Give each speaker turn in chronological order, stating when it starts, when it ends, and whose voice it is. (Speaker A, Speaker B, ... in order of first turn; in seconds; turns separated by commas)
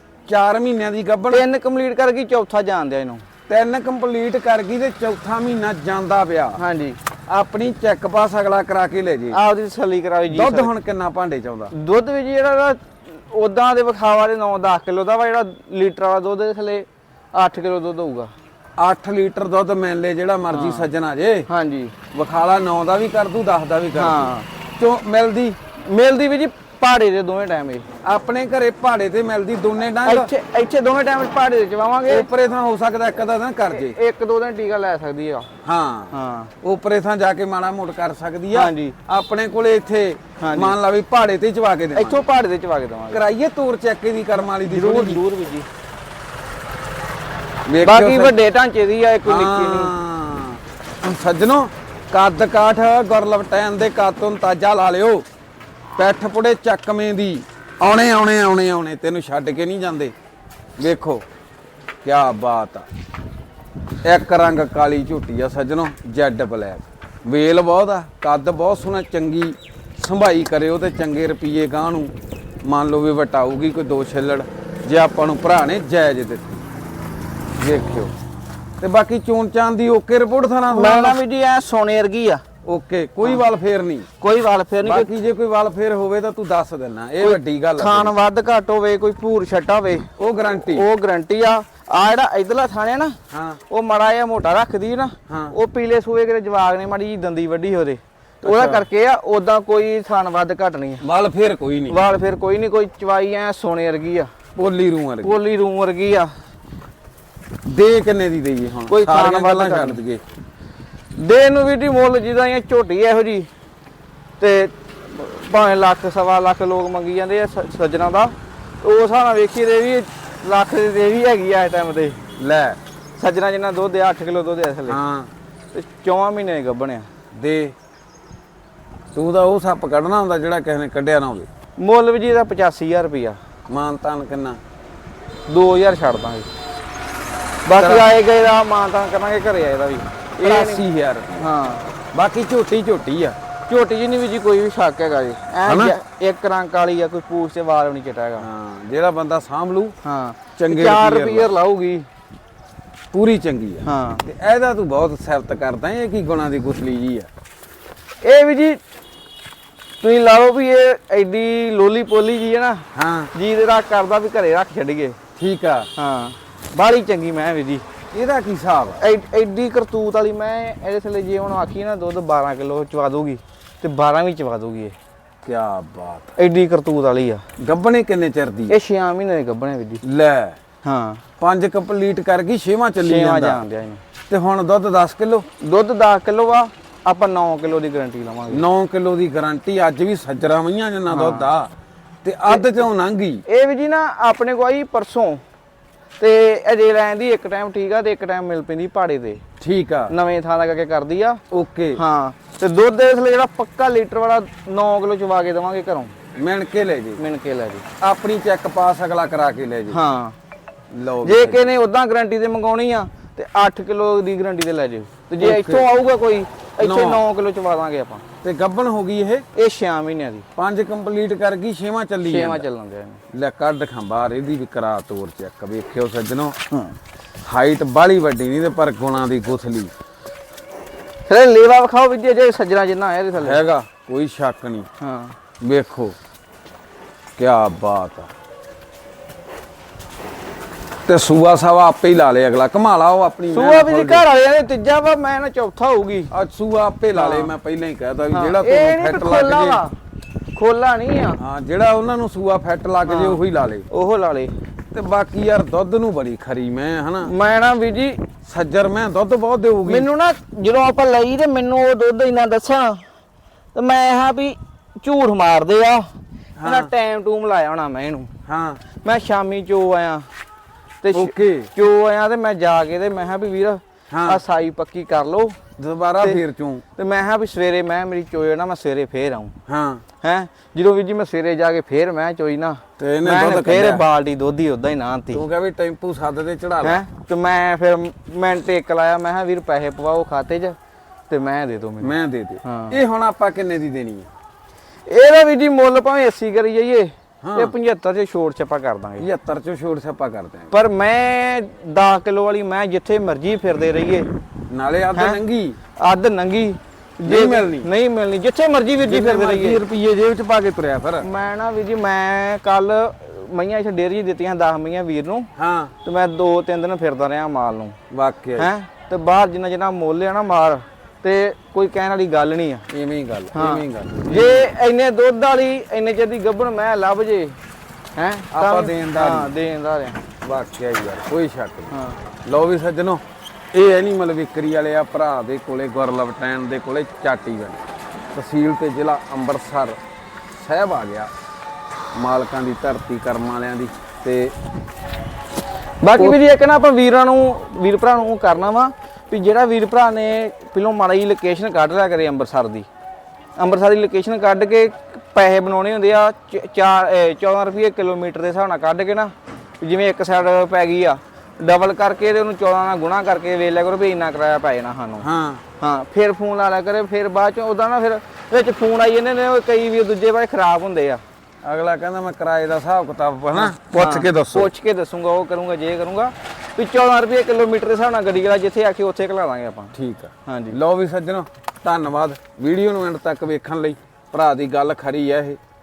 Speaker A: 0.3-1.4, Speaker B: 1.3-3.2, Speaker A: 3.5-6.6, Speaker B: 6.6-7.0, Speaker A: 7.3-9.4, Speaker B: 9.3-10.7, Speaker A: 10.3-11.7, Speaker B: 11.7-18.3, Speaker A: 18.8-21.5, Speaker B: 20.5-20.9, Speaker B: 21.5-21.9, Speaker A: 22.1-25.6, Speaker B: 23.9-24.4, Speaker B: 25.9-27.9, Speaker A: 28.0-30.3, Speaker B: 30.0-32.3, Speaker A: 32.1-34.0, Speaker B: 33.7-35.5, Speaker A: 35.6-42.2, Speaker B: 36.1-36.5, Speaker B: 38.5-39.0, Speaker B: 40.4-40.7, Speaker B: 41.9-43.2, Speaker A: 43.1-45.2, Speaker B: 44.6-45.7, Speaker A: 47.7-48.4, Speaker B: 47.8-49.9, Speaker A: 49.2-55.2, Speaker A: 56.0-60.1, Speaker A: 60.8-61.2, Speaker A: 62.0-62.9, Speaker A: 64.0-72.1, Speaker A: 72.6-76.6, Speaker A: 77.6-78.1, Speaker A: 78.8-81.2, Speaker B: 80.7-82.4, Speaker A: 82.6-84.1, Speaker B: 84.2-85.1, Speaker A: 84.8-88.1, Speaker B: 87.2-93.2, Speaker A: 90.2-90.9, Speaker A: 93.3-93.6, Speaker B: 93.7-101.0, Speaker A: 95.3-95.5, Speaker A: 98.4-98.8, Speaker A: 101.0-102.0, Speaker B: 101.9-104.3, Speaker A: 104.5-105.4, Speaker B: 105.2-106.3, Speaker A: 107.6-110.2, Speaker B: 108.9-110.0, Speaker B: 111.2-113.5, Speaker B: 114.4-122.2, Speaker A: 122.4-122.8, Speaker B: 123.2-125.0, Speaker A: 124.9-125.3, Speaker B: 125.7-127.1, Speaker A: 127.3-127.7, Speaker A: 129.1-131.5, Speaker B: 131.8-133.4, Speaker A: 133.7-134.6, Speaker B: 135.5-136.5, Speaker B: 137.6-140.8, Speaker A: 137.7-138.1, Speaker A: 140.4-141.5, Speaker B: 141.4-141.8, Speaker A: 142.1-143.4, Speaker B: 143.7-148.4, Speaker A: 145.7-146.0, Speaker A: 148.4-149.9, Speaker B: 150.0-152.1, Speaker A: 150.6-151.5, Speaker A: 153.1-157.3, Speaker B: 153.8-154.2, Speaker B: 158.2-158.8, Speaker B: 160.0-165.2, Speaker A: 162.9-163.3, Speaker A: 165.4-165.9, Speaker B: 165.9-167.8, Speaker A: 168.1-169.0, Speaker B: 169.0-174.9, Speaker A: 175.4-176.3, Speaker B: 176.4-177.4, Speaker A: 177.6-178.7, Speaker B: 178.7-180.0, Speaker A: 180.0-180.6, Speaker B: 180.8-181.2, Speaker A: 181.4-183.6, Speaker B: 183.0-184.0, Speaker A: 184.3-185.4, Speaker B: 185.6-188.6, Speaker A: 188.5-191.7, Speaker B: 191.1-191.5, Speaker A: 192.2-193.4, Speaker B: 193.5-195.4, Speaker B: 196.2-199.4, Speaker A: 199.6-200.1, Speaker B: 200.1-201.4, Speaker A: 201.5-202.0, Speaker B: 201.9-206.1, Speaker A: 206.3-207.2, Speaker B: 207.2-207.8, Speaker A: 208.0-210.0, Speaker B: 209.9-210.3, Speaker A: 210.9-211.7, Speaker B: 211.2-218.2, Speaker A: 215.4-215.9, Speaker A: 216.8-217.2, Speaker A: 218.4-219.4, Speaker B: 219.5-220.4, Speaker A: 220.6-222.6, Speaker B: 222.2-223.2, Speaker A: 223.3-226.6, Speaker A: 227.4-229.9, Speaker B: 231.3-233.6, Speaker A: 233.4-234.9, Speaker B: 235.0-235.3, Speaker A: 235.6-236.2, Speaker A: 237.4-238.3, Speaker A: 241.1-244.2, Speaker B: 243.5-246.3, Speaker A: 246.3-249.8, Speaker B: 247.2-247.5, Speaker B: 248.3-249.9, Speaker B: 250.5-251.4, Speaker A: 251.4-253.9, Speaker B: 253.1-254.5, Speaker A: 254.9-257.3, Speaker B: 257.2-258.2, Speaker A: 258.4-260.1, Speaker B: 259.9-263.0, Speaker B: 263.7-266.1, Speaker A: 266.6-266.9, Speaker B: 266.6-268.3, Speaker A: 268.4-268.8, Speaker B: 269.0-270.2, Speaker B: 271.0-275.6, Speaker A: 271.1-271.7, Speaker A: 274.1-274.4, Speaker A: 275.8-276.8, Speaker B: 276.9-279.5, Speaker A: 279.7-280.0, Speaker B: 280.2-285.4, Speaker A: 283.0-284.0, Speaker A: 285.3-287.0, Speaker B: 286.8-290.8, Speaker B: 291.3-293.0, Speaker A: 292.0-294.3, Speaker B: 295.1-299.2, Speaker A: 297.4-297.7, Speaker A: 299.2-300.7, Speaker B: 300.7-304.3, Speaker A: 304.7-305.8, Speaker B: 305.1-305.4, Speaker B: 305.9-309.8, Speaker A: 307.2-307.9, Speaker A: 309.0-311.3, Speaker B: 311.2-315.5, Speaker A: 315.6-315.9, Speaker B: 316.0-317.9, Speaker A: 318.1-318.7, Speaker B: 318.6-322.9, Speaker A: 322.9-324.7, Speaker B: 323.5-327.6, Speaker B: 328.1-330.2, Speaker A: 328.5-329.5, Speaker A: 330.4-331.9, Speaker B: 331.9-332.2, Speaker A: 332.4-337.8, Speaker A: 338.3-340.0, Speaker A: 340.5-341.3, Speaker A: 342.1-344.5, Speaker B: 346.0-352.9, Speaker A: 346.1-346.4, Speaker B: 353.6-365.2, Speaker A: 365.2-365.6, Speaker B: 365.8-371.2, Speaker A: 371.6-374.7, Speaker B: 373.5-379.9, Speaker A: 379.9-385.6, Speaker B: 380.4-380.8